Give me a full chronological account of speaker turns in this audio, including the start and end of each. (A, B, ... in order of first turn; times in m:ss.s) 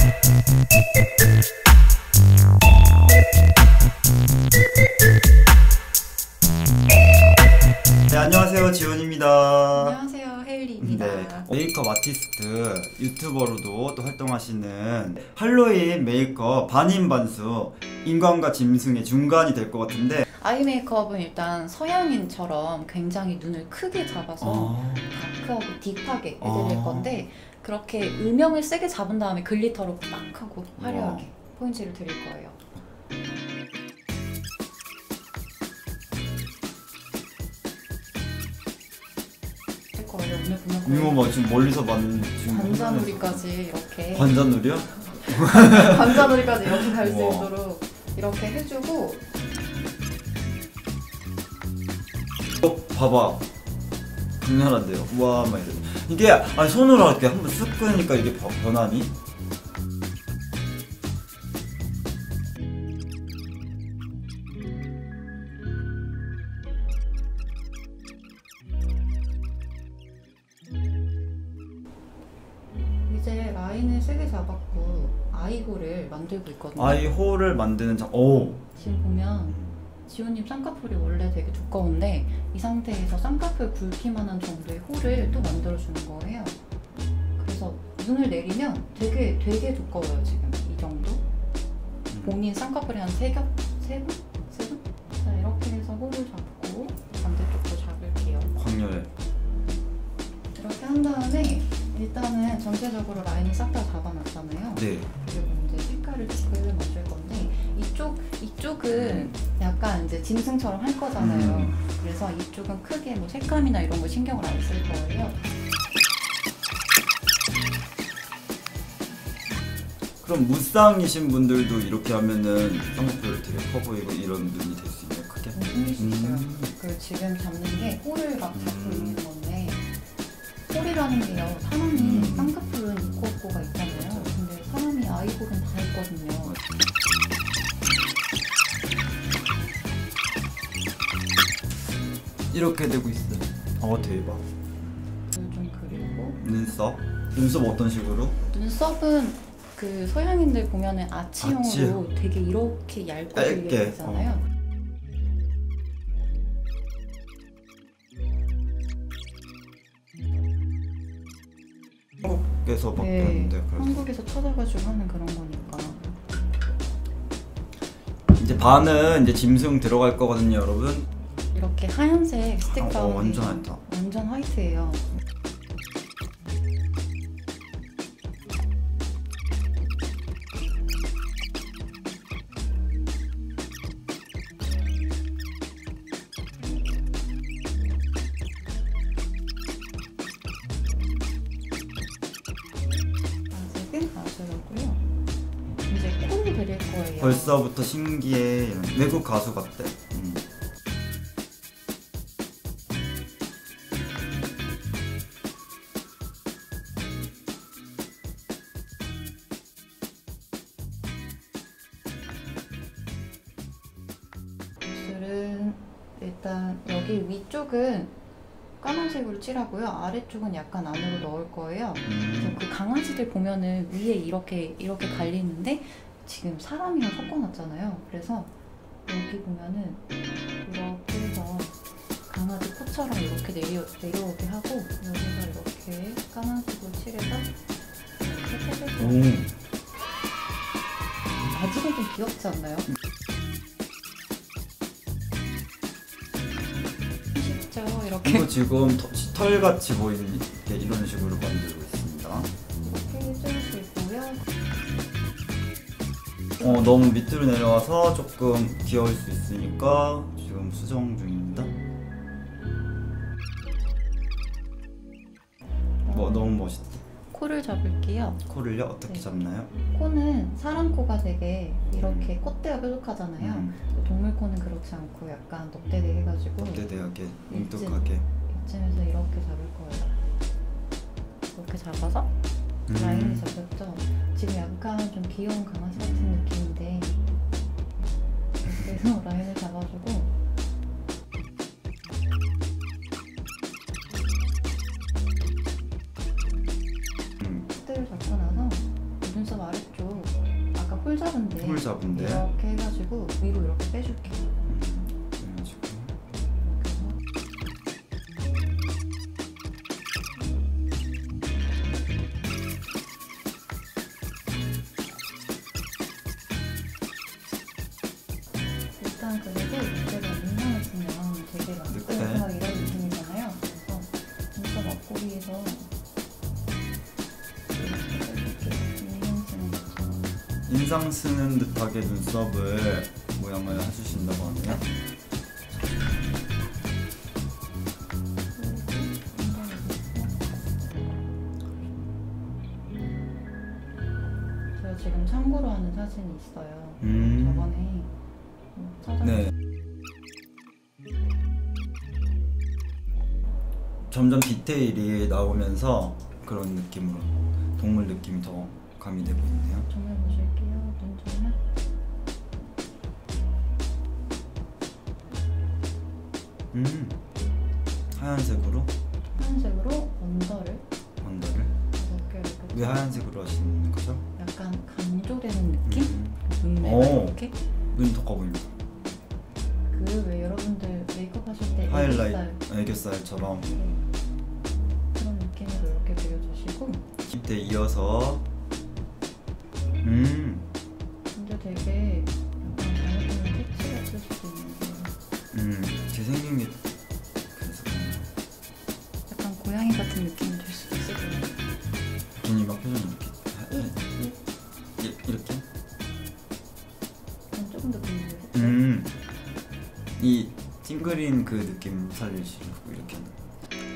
0:08.1-0:10.0 A
0:09.7-0:11.5 B
0:10.8-0:20.2 A
0:20.2-0:32.6 B
0:24.4-0:25.1 A
0:26.4-0:27.1 A
0:30.8-0:31.3 A
0:39.9-0:41.2 B
0:40.8-0:43.4 A
0:42.4-0:49.2 B
0:44.1-0:47.5 A
0:52.6-0:53.5 A
0:54.4-0:59.1 A
1:13.1-1:17.0 B
1:16.8-1:18.6 A
1:18.7-1:26.6 B
1:19.5-1:19.8 A
1:25.0-1:25.6 A
1:27.4-1:31.2 B
1:32.1-1:32.4 A
1:32.2-1:38.5 B
1:38.5-1:39.1 A
1:40.5-1:55.4 B
1:44.7-1:45.1 A
1:48.9-1:49.4 A
1:51.2-1:51.8 A
2:00.2-2:06.7 A
2:05.5-2:09.8 B
2:08.5-2:09.2 A
2:10.7-2:16.6 B
2:11.9-2:12.5 A
2:13.9-2:14.3 A
2:22.5-2:24.4 A
2:25.3-2:26.4 B
2:26.4-2:28.4 A
2:28.5-2:34.4 B
2:31.4-2:32.0 A
2:33.3-2:34.4 A
2:42.2-2:44.0 A
2:43.0-2:46.2 B
2:48.3-2:51.1 A
2:51.5-2:55.0 B
2:52.7-2:53.8 A
3:13.5-3:15.0 B
3:15.9-3:17.6 B
3:17.2-3:20.4 A
3:34.8-3:38.2 B
3:38.8-3:48.5 B
3:42.1-3:42.6 A
3:49.0-3:50.0 B
3:50.6-3:51.8 B
3:52.3-3:57.5 B
3:58.2-3:59.2 B
3:59.0-3:59.5 A
4:01.4-4:02.9 B
4:07.3-4:08.5 B
4:08.2-4:12.5 A
4:12.8-4:14.5 B
4:16.6-4:21.7 A
4:26.0-4:26.5 B
4:26.1-4:27.0 A
4:27.3-4:28.4 B
4:28.4-4:29.7 A
4:29.9-4:36.8 B
4:32.0-4:32.3 A
4:33.4-4:33.8 A
4:36.6-4:38.2 A
4:37.5-4:40.1 B
4:41.5-4:42.3 B
4:42.9-4:43.5 A
4:42.9-4:47.1 B
4:46.0-4:46.5 A
4:48.6-4:50.3 B
4:57.6-5:04.7 B
5:01.6-5:02.4 A
5:04.7-5:06.1 A
5:06.6-5:07.2 B
5:19.0-5:25.9 B
5:21.9-5:23.0 A
5:27.7-5:30.3 B
5:30.7-5:34.8 A
5:38.5-5:40.7 B
5:44.8-5:48.1 B
5:47.0-5:47.7 A
5:48.7-5:49.5 B
5:49.2-5:49.5 A
5:54.1-5:59.9 A
5:59.8-6:01.6 B
6:06.7-6:07.2 A
6:08.1-6:08.9 A
6:09.4-6:10.8 B
6:11.2-6:11.7 A
6:11.9-6:13.2 B
6:12.7-6:14.2 A
6:14.4-6:17.5 B
6:15.8-6:17.4 A
6:17.9-6:18.7 A
6:19.9-6:22.6 B
6:21.9-6:23.7 A
6:23.7-6:24.0 B
6:25.1-6:27.1 B
6:27.3-6:28.4 A
6:30.0-6:30.7 A
6:31.3-6:35.1 B
6:35.5-6:36.8 A
6:37.5-6:38.3 A
6:39.3-6:41.6 B
6:42.4-6:44.0 A
6:43.7-6:44.4 B
6:45.0-6:45.7 A
6:47.5-6:48.8 B
6:48.5-6:49.1 A
6:50.2-6:53.4 A